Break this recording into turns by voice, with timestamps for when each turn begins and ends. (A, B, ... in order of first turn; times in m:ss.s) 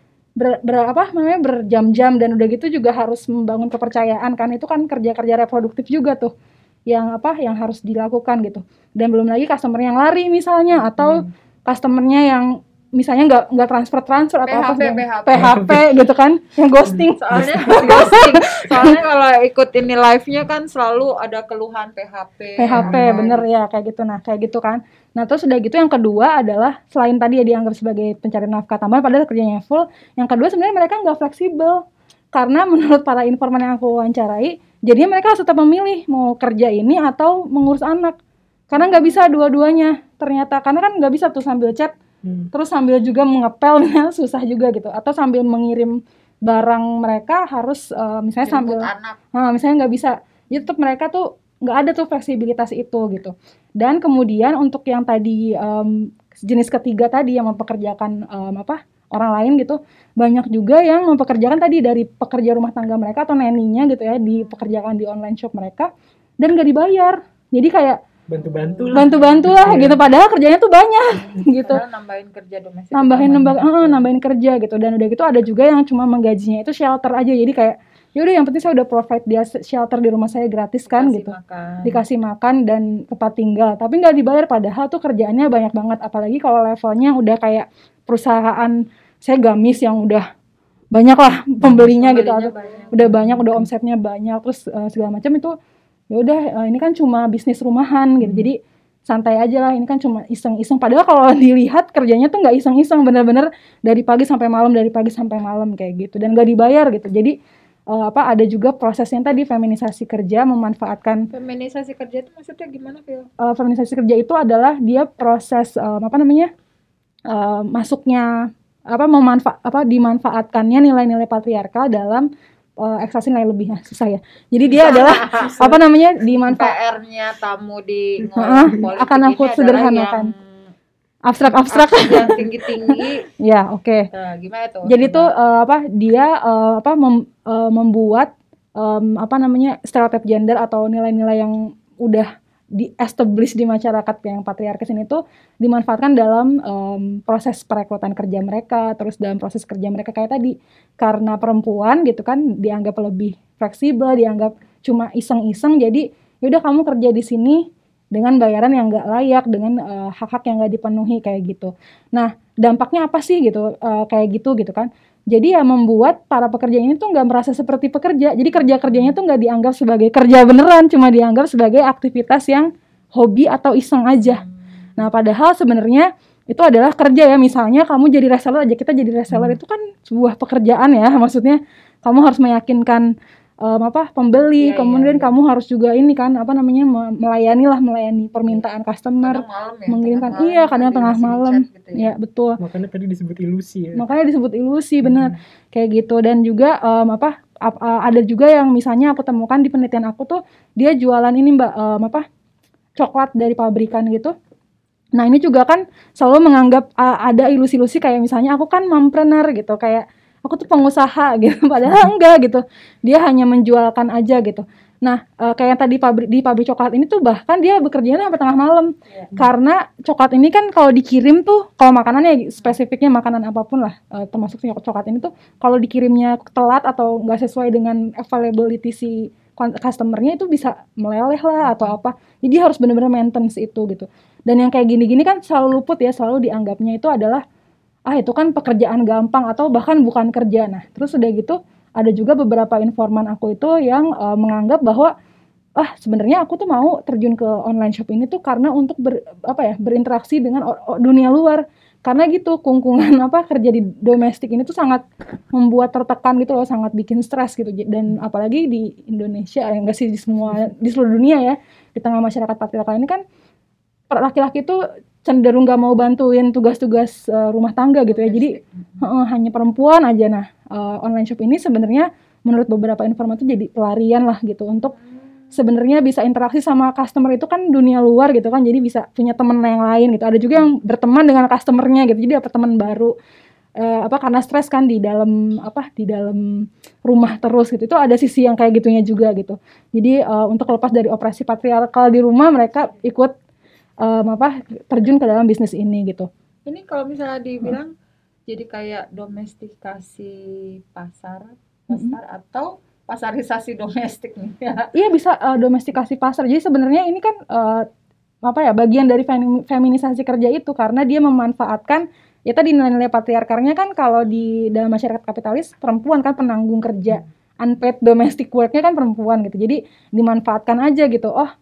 0:00.4-0:06.3 A
0:06.9-0:19.0 A
0:14.4-0:15.8 B
0:15.3-0:15.8 C
0:17.1-0:23.4 B
0:22.6-0:31.8 A
0:22.7-0:23.0 C
0:32.3-0:38.2 A
0:38.7-0:41.9 A
0:42.2-0:42.5 C
0:42.5-1:08.0 A
0:48.4-0:49.2 B
1:08.3-1:10.0 C
1:08.7-1:09.5 B
1:08.9-1:11.8 A
1:11.4-1:14.1 B
1:12.9-1:21.3 A
1:20.9-1:22.0 B
1:21.8-1:30.2 A
1:30.9-1:35.5 A
1:31.6-1:31.9 C
1:31.8-1:33.4 B
1:33.1-1:33.4 C
1:36.1-1:47.4 A
1:38.2-1:38.5 C
1:47.9-1:51.3 A
1:51.3-1:53.3 B
1:53.4-1:56.5 A
1:57.3-2:06.7 A
2:04.7-2:05.8 B
2:06.5-2:10.4 B
2:08.4-2:10.3 A
2:11.3-2:14.1 A
2:11.7-2:13.2 B
2:14.1-2:15.3 B
2:14.9-2:54.4 A
2:55.0-3:03.1 A
2:59.3-2:59.6 C
3:03.6-3:12.6 A
3:04.6-3:05.3 B
3:09.2-3:12.1 B
3:12.6-3:14.0 C
3:13.9-3:22.2 A
3:15.0-3:15.3 C
3:23.0-3:24.3 A
3:25.1-3:57.4 A
3:58.1-4:05.1 A
4:05.8-4:23.2 A
4:24.1-4:34.9 A
4:28.1-4:28.8 B
4:35.5-4:43.1 A
4:43.8-4:53.3 A
4:54.0-4:56.3 A
4:56.6-4:57.9 B
4:58.5-5:04.9 B
5:01.9-5:02.2 A
5:04.9-5:07.9 A
5:08.4-5:21.5 A